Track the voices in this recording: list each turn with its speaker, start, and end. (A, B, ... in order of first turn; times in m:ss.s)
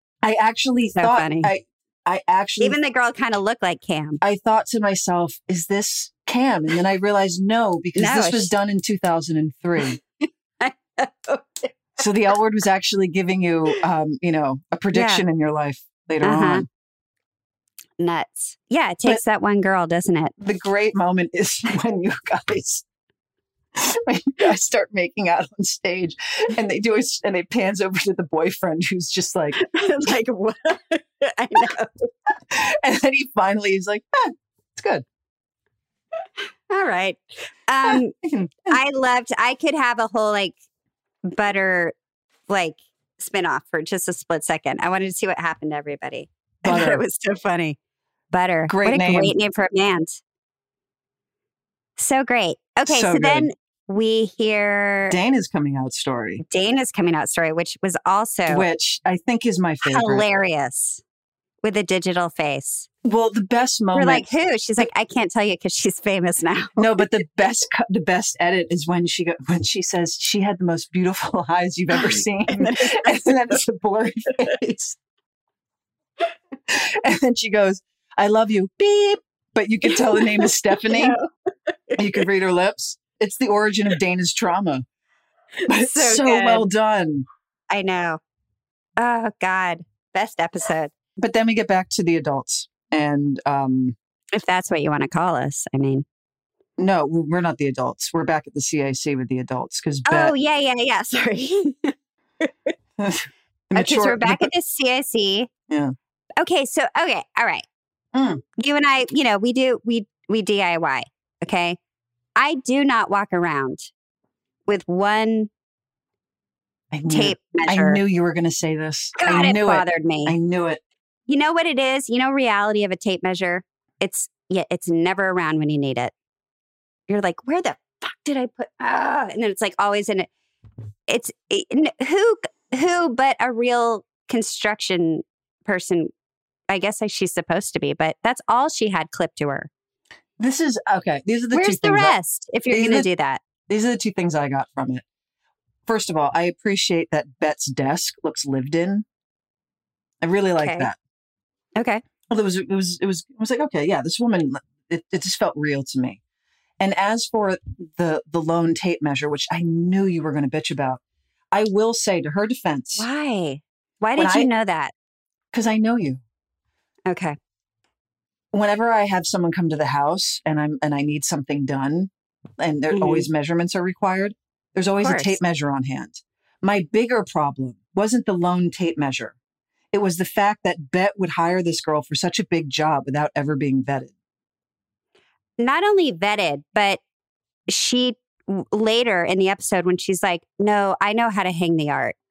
0:00.2-0:02.8 A
0:01.0-0:01.5 B
0:02.6-0:04.2 B
0:04.2-0:10.0 A
0:08.0-0:08.5 B
0:09.9-0:11.7 B
0:12.0-0:16.7 A
0:14.9-0:15.2 B
0:16.2-0:16.6 B
0:18.0-0:20.3 B
0:20.4-0:22.8 A
0:23.7-0:29.6 A
0:29.6-0:32.1 B
0:32.5-0:35.0 A
0:36.7-0:38.1 B
0:37.8-0:38.8 A
0:38.7-0:40.5 B
0:41.2-0:41.9 B
0:42.5-0:47.8 B
0:46.6-0:47.0 A
0:48.3-0:50.2 B
0:48.7-0:49.3 A
0:52.0-0:55.2 B
0:52.9-0:53.5 A
0:55.1-0:56.4 A
0:56.4-0:58.7 B
0:58.5-1:00.2 A
0:59.8-1:01.0 B
1:01.6-1:02.9 B
1:03.0-1:04.3 A
1:03.9-1:07.0 B
1:06.8-1:15.0 A
1:11.9-1:13.6 B
1:16.7-1:21.2 A
1:19.9-1:22.2 B
1:22.0-1:24.8 A
1:25.6-1:26.7 B
1:25.7-1:27.2 A
1:27.7-1:28.2 B
1:29.0-1:30.9 B
1:31.2-1:34.0 A
1:34.3-1:36.0 B
1:36.8-1:40.3 A
1:40.1-1:42.5 B
1:43.0-1:44.5 A
1:43.7-1:45.5 B
1:45.7-1:45.9 A
1:46.4-1:47.6 B
1:48.1-1:48.4 A
1:48.6-1:51.8 B
1:52.4-1:53.9 B
1:54.7-1:55.5 B
1:56.9-2:00.8 A
1:57.1-1:58.0 B
1:59.2-2:00.3 B
2:01.3-2:06.1 B
2:07.1-2:10.3 B
2:11.1-2:16.1 B
2:16.7-2:19.7 B
2:20.4-2:22.2 A
2:21.5-2:23.4 B
2:22.7-2:23.1 A
2:23.7-2:25.0 A
2:25.9-2:29.0 A
2:30.2-2:31.0 A
2:30.6-2:30.9 B
2:31.8-2:32.0 B
2:32.3-2:36.2 A
2:36.8-2:41.0 A
2:41.5-2:43.0 A
2:43.0-2:44.9 B
2:44.2-2:44.5 A
2:45.5-2:46.2 A
2:47.1-2:47.4 B
2:48.5-2:59.4 A
2:52.9-2:53.3 B
2:55.0-2:55.4 B
2:59.9-3:04.1 A
3:05.6-3:07.0 B
3:07.7-3:12.1 B